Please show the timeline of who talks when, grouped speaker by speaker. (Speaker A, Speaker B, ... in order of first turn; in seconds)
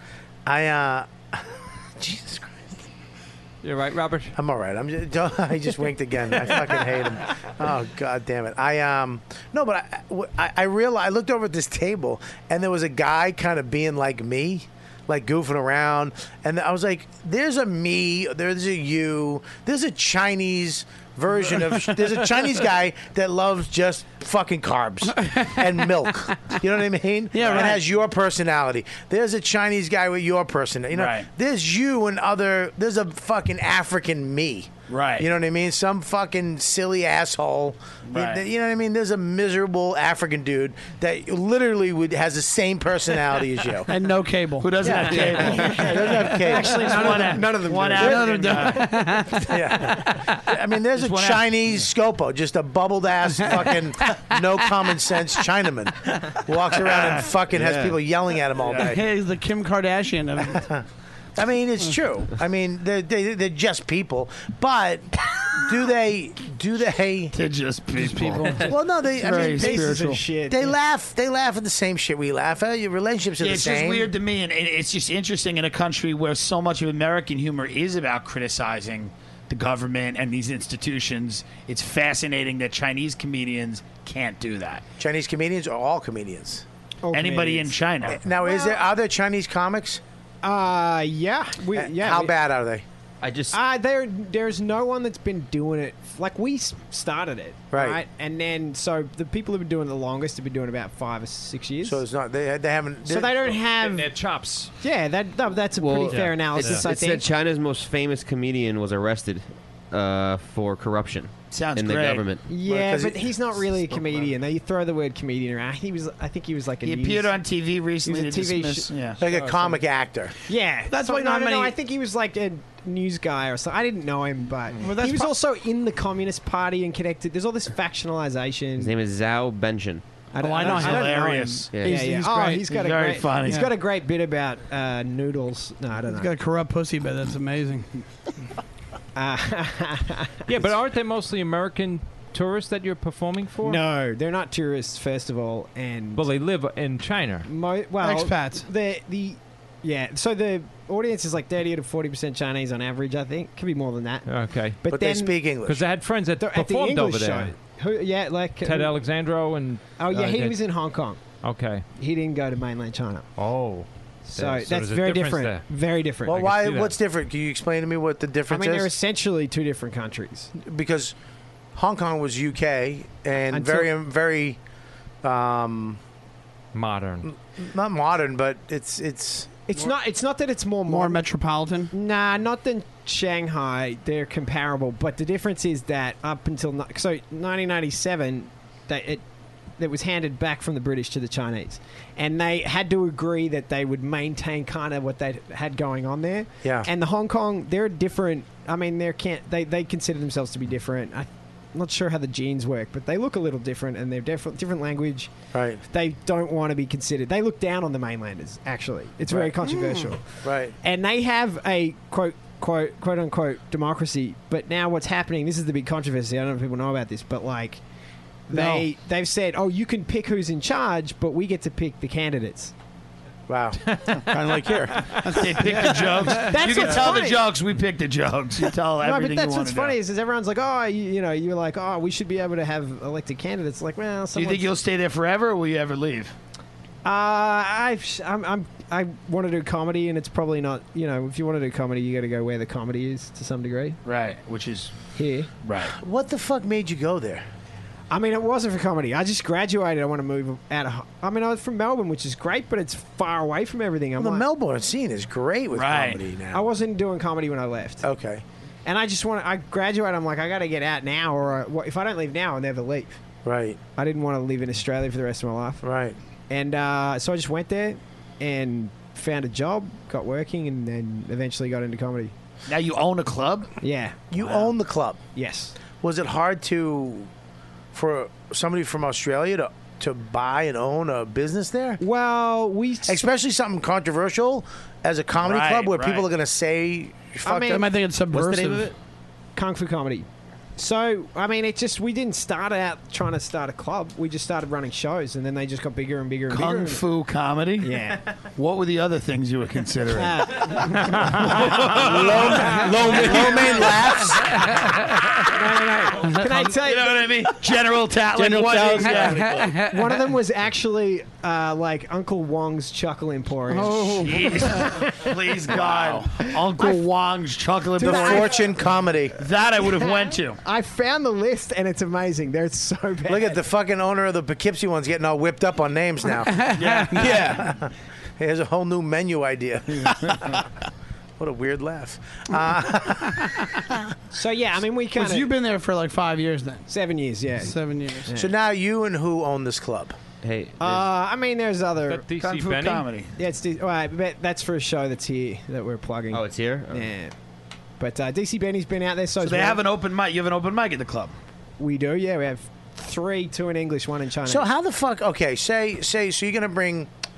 Speaker A: 0.5-2.8, 4.3-43.9, 44.8-47.5, 49.5-59.0, 61.3-67.3, 68.7-69.9, 70.5-74.1, 85.0-86.6, 88.1-90.0, 91.7-92.8, 97.7-98.0, 101.8-103.6, 112.5-113.7, 119.2-120.3, 154.9-155.8, 166.2-168.9, 170.6-171.1, 171.7-174.6, 175.2-176.0, 177.3-179.6, 196.6-196.9, 205.5-205.8, 209.3-210.7, 223.5-223.9, 245.9-247.4, 254.2-256.6, 258.0-258.4, 263.4-263.8, 265.8-266.2, 274.3-275.2, 276.0-277.3, 277.9-282.0, 283.0-287.9, 301.7-304.7, 318.0-319.4, 323.3-326.7, 327.5-330.6, 331.4-334.0, 338.3-340.1, 354.4-357.1
Speaker B: 3.6-4.3, 103.8-104.7, 106.1-106.8, 140.4-143.8, 146.2-147.5, 154.2-154.8, 155.6-157.5, 158.6-160.7, 161.4-161.8, 163.4-165.7, 166.3-166.9, 176.7-177.3, 223.9-224.2, 342.1-343.1
Speaker C: 25.2-25.7, 27.3-27.8, 43.9-45.8, 47.9-49.5, 58.8-60.6, 68.0-68.7, 120.9-121.8, 124.8-125.3, 130.4-132.7, 136.1-138.1, 148.0-148.7, 180.9-181.9, 225.7-226.4, 287.6-288.9, 309.4-309.9, 313.7-314.9, 326.5-327.1, 335.1-336.9, 337.6-338.3
Speaker D: 27.4-27.8, 30.9-31.3, 34.9-35.3, 38.1-38.4, 44.6-45.8, 46.7-48.9, 51.0-51.4, 67.3-70.2, 73.4-84.8, 87.1-88.2, 111.5-112.3, 116.8-119.2, 130.6-131.8, 132.7-133.7, 225.2-229.9, 234.3-236.3, 244.0-244.9, 245.6-245.9, 255.7-256.2, 272.7-273.7, 285.4-286.3, 296.5-298.0, 298.5-301.0, 301.5-302.7, 306.4-309.7, 314.2-318.5, 319.4-320.6, 326.7-327.6, 342.4-343.3, 349.4-351.3
Speaker E: 45.1-49.1, 69.2-70.7, 87.0-87.8, 88.3-88.8, 90.4-92.3, 93.5-102.0, 103.0-104.1, 104.8-107.3, 112.5-117.4, 118.0-118.9, 120.5-128.9, 130.3-136.3, 139.2-140.7, 143.6-146.2, 147.4-155.4, 156.4-159.0, 160.0-161.2, 161.9-163.3, 164.3-166.4, 168.5-170.5, 173.5-173.9, 179.7-181.2, 181.9-189.2, 189.8-217.8, 218.5-222.7, 226.2-227.4, 229.0-234.7, 237.0-244.0, 245.1-245.5, 248.1-254.4, 256.5-258.0, 258.8-263.2, 263.9-265.8, 266.5-272.3, 273.8-274.7, 275.3-275.7, 282.0-283.3, 287.4-288.9, 289.5-297.0, 297.8-298.2, 300.1-303.7, 305.4-307.3, 309.8-315.3, 318.0-318.5, 320.6-323.6, 334.3-335.5, 336.9-338.5, 340.8-342.2, 343.4-347.3, 348.0-349.8, 351.8-354.7
Speaker F: 57.6-57.9, 105.8-112.5, 128.8-130.0, 131.7-132.0, 340.4-341.1, 346.3-347.1
Speaker G: 224.3-225.3, 301.9-304.0, 308.3-309.6, 327.2-327.6